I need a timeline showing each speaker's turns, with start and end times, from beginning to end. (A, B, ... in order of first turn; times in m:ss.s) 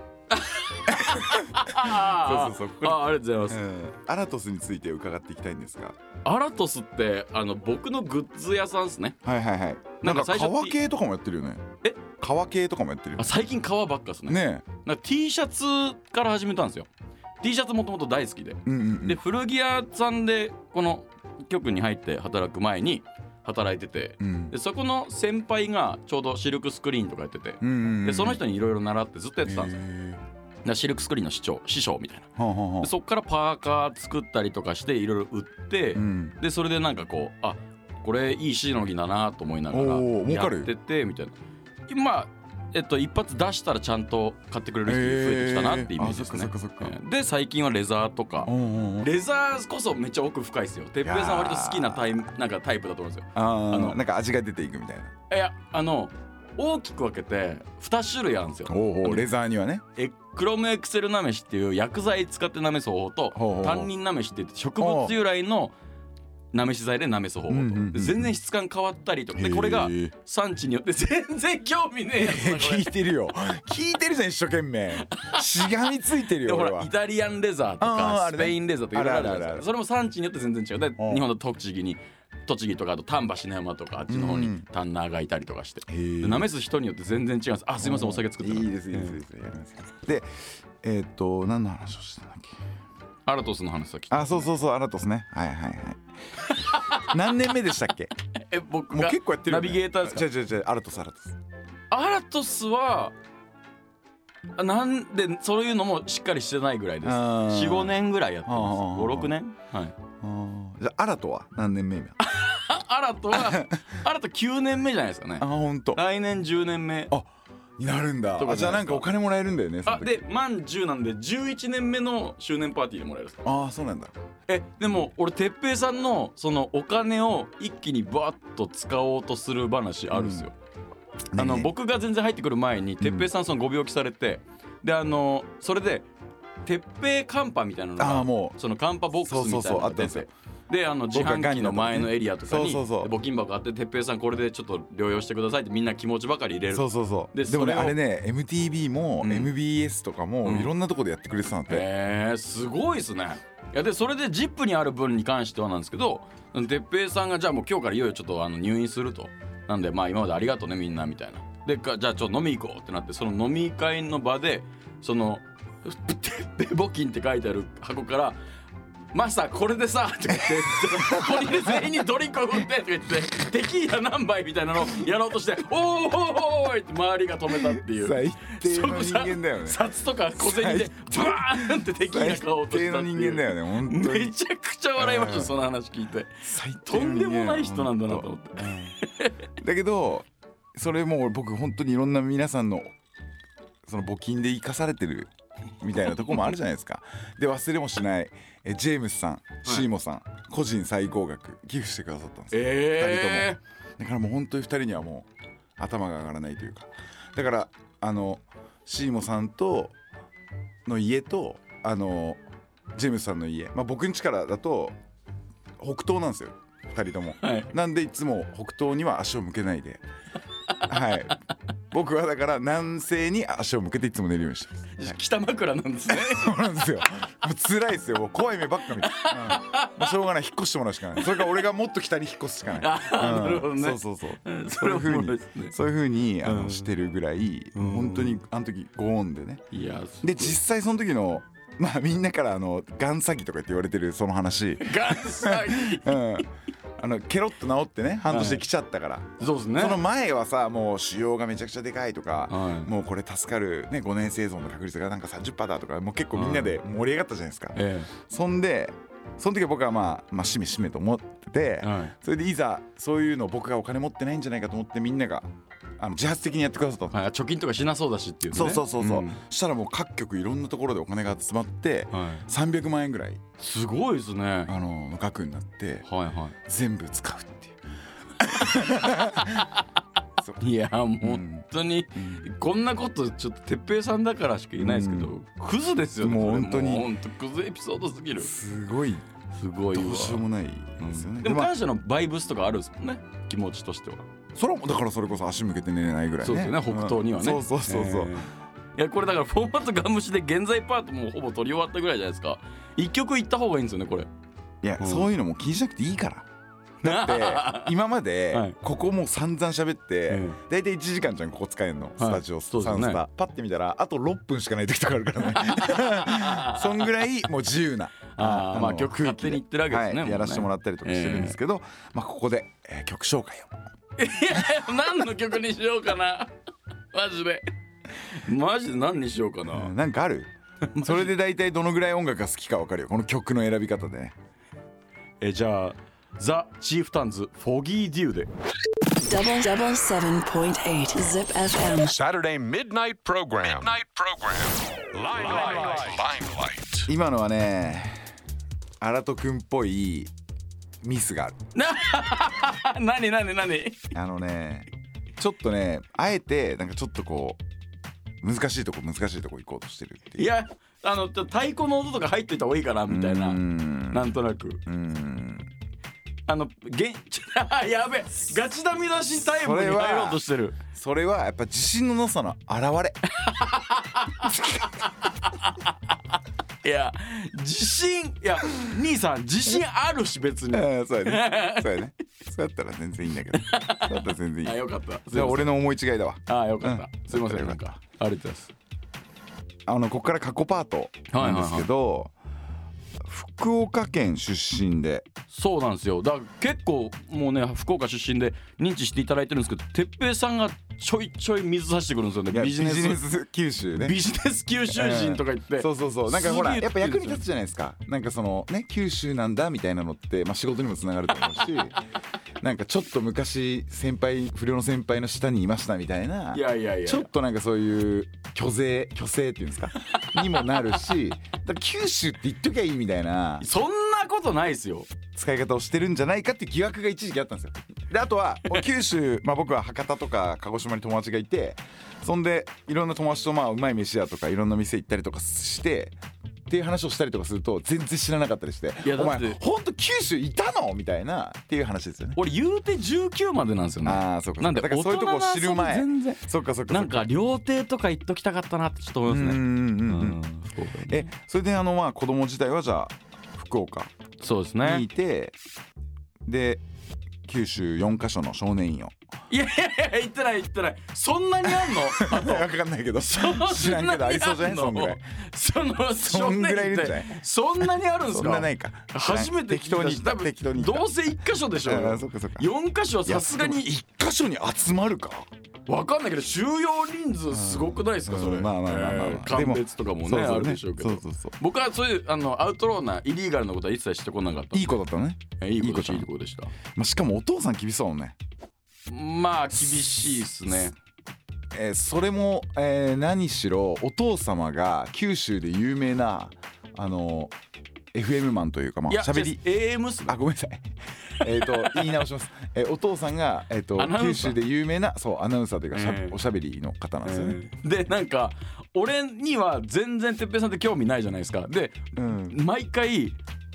0:00.3-0:03.6 A
0:00.9-0:06.0 B
0:06.2-0:09.2 A
0:09.2-0:13.4 B
0:10.0-0:10.8 A
0:13.2-0:16.9 A
0:14.3-0:14.6 B
0:17.4-0:29.8 A
0:18.6-0:19.2 B
0:24.2-0:24.5 B
0:27.6-0:28.4 B
0:29.5-0:30.2 B
0:30.6-0:32.3 A
0:32.4-0:32.9 B
0:32.8-0:41.4 A
0:36.0-0:36.4 B
0:39.7-0:40.7 B
0:41.9-0:54.0 A
0:44.9-0:47.0 B
0:48.4-0:49.1 B
0:51.0-0:52.1 B
0:53.4-0:55.1 B
0:55.3-0:59.3 A
0:58.7-0:59.8 B
1:00.0-1:05.7 A
1:03.3-1:03.9 B
1:04.8-1:05.2 B
1:06.5-1:12.9 A
1:07.5-1:08.3 B
1:09.4-1:10.1 B
1:12.2-1:16.9 B
1:15.0-1:15.5 A
1:16.4-1:29.2 A
1:17.8-1:19.6 B
1:21.0-1:21.2 B
1:24.1-1:24.6 B
1:25.9-1:26.5 B
1:27.8-1:30.3 B
1:30.8-1:32.6 B
1:33.2-1:34.5 A
1:34.1-1:36.1 B
1:36.4-1:37.1 A
1:36.9-1:38.1 B
1:38.3-1:40.3 A
1:38.9-1:41.4 B
1:41.9-1:43.1 A
1:44.6-1:50.0 A
1:47.0-1:49.3 B
1:50.2-1:52.2 B
1:52.2-1:57.1 A
1:53.3-1:53.8 B
1:55.4-1:56.0 B
1:57.1-2:00.2 B
1:58.4-1:59.1 A
1:59.8-2:03.4 A
2:03.4-2:04.1 B
2:04.5-2:10.5 A
2:10.1-2:10.5 B
2:11.3-2:11.7 B
2:11.4-2:16.1 A
2:13.0-2:13.3 B
2:16.6-2:28.0 A
2:18.0-2:18.6 B
2:19.2-2:20.3 B
2:21.1-2:23.1 B
2:26.7-2:31.9 B
2:29.2-2:29.5 A
2:30.4-2:30.7 A
2:31.7-2:48.4 A
2:49.1-3:09.4 A
2:50.3-2:51.9 B
2:57.5-2:59.8 B
3:00.4-3:04.3 B
3:05.0-3:05.5 B
3:06.4-3:09.0 B
3:09.6-3:12.9 B
3:13.9-3:25.3 B
3:22.5-3:23.6 A
3:25.8-3:30.0 B
3:30.9-3:32.4 B
3:32.9-3:35.0 B
3:35.8-3:40.0 B
3:37.4-3:37.7 A
3:40.9-3:41.4 B
3:41.9-3:45.1 B
3:45.0-3:46.7 A
3:46.1-3:59.6 B
3:49.1-3:50.1 A
3:51.2-3:51.5 A
3:52.8-3:55.8 A
3:56.4-3:56.9 A
3:57.8-3:58.4 A
3:59.7-4:00.6 A
4:00.2-4:27.2 B
4:04.8-4:06.2 A
4:08.3-4:08.6 A
4:09.4-4:10.0 A
4:12.5-4:12.9 A
4:16.3-4:16.8 A
4:17.8-4:18.1 A
4:21.8-4:22.1 A
4:27.1-4:29.4 A
4:28.5-4:33.4 B
4:32.1-4:32.5 A
4:33.6-4:34.7 A
4:34.7-4:36.0 B
4:36.0-4:36.6 A
4:36.6-4:37.8 B
4:38.4-4:39.6 B
4:39.1-4:39.8 A
4:40.6-4:48.5 A
4:41.2-4:42.5 B
4:44.8-4:45.3 B
4:46.2-4:47.1 B
4:48.4-4:49.2 B
4:49.5-4:50.4 A
4:49.9-4:51.7 B
4:51.0-4:54.2 A
4:54.5-4:58.4 B
4:56.4-5:04.3 A
5:04.8-5:06.5 B
5:05.0-5:05.3 A
5:07.0-5:23.8 B
5:07.0-5:08.0 A
5:10.3-5:10.6 A
5:12.2-5:13.2 A
5:15.5-5:17.1 A
5:18.3-5:21.6 A
5:24.2-5:26.5 A
5:27.1-5:27.6 A
5:28.3-5:29.9 A
5:29.7-5:34.4 B
5:30.9-5:31.3 A
5:35.4-5:38.5 A
5:39.2-5:42.2 C
5:42.1-5:47.1 D
5:47.1-5:48.2 B
5:49.0-5:50.3 B
5:51.0-5:51.6 B
5:51.8-5:54.1 A
5:54.1-5:57.6 B
5:58.4-6:00.5 B
6:00.4-6:04.8 A
6:03.1-6:04.3 B
6:04.9-6:05.7 B
6:06.5-6:10.8 A
6:09.5-6:13.2 B
6:13.4-6:16.1 A
6:14.4-6:14.9 B
6:16.8-6:22.0 A
6:20.7-6:27.8 B
6:23.6-6:25.8 A
6:26.5-6:28.7 A
6:29.9-6:32.3 B
6:31.3-6:31.9 A
6:33.2-6:35.3 B
6:35.5-6:43.2 A
6:42.5-6:44.2 B
6:44.0-6:47.4 A
6:44.9-6:52.0 B
6:52.6-7:03.7 B
6:56.5-6:57.3 A
7:00.1-7:00.6 A
7:03.6-7:05.1 A
7:05.4-7:16.2 B
7:16.7-7:22.4 B
7:19.0-7:19.6 A
7:22.4-7:31.3 A
7:24.0-7:27.3 B
7:29.3-7:30.4 B
7:31.1-7:34.1 B
7:34.4-7:35.0 A
7:34.8-7:35.5 B
7:36.4-7:36.8 B
7:37.4-7:39.2 B
7:39.5-7:42.7 A
7:41.7-7:45.3 B
7:43.2-7:53.9 A
7:46.2-7:51.2 B
7:51.8-7:52.7 B
7:53.2-7:55.5 B
7:55.9-8:05.0 A
7:57.5-8:01.5 B
8:04.7-8:06.3 B
8:05.6-8:06.7 A
8:06.8-8:08.4 B
8:09.1-8:10.9 A
8:09.9-8:10.8 B
8:11.7-8:17.5 B
8:18.1-8:19.6 B
8:19.1-8:20.4 A
8:20.2-8:27.6 B
8:21.7-8:22.2 A
8:24.0-8:24.6 A
8:25.9-8:26.4 A
8:27.2-8:33.4 A
8:32.2-8:32.6 B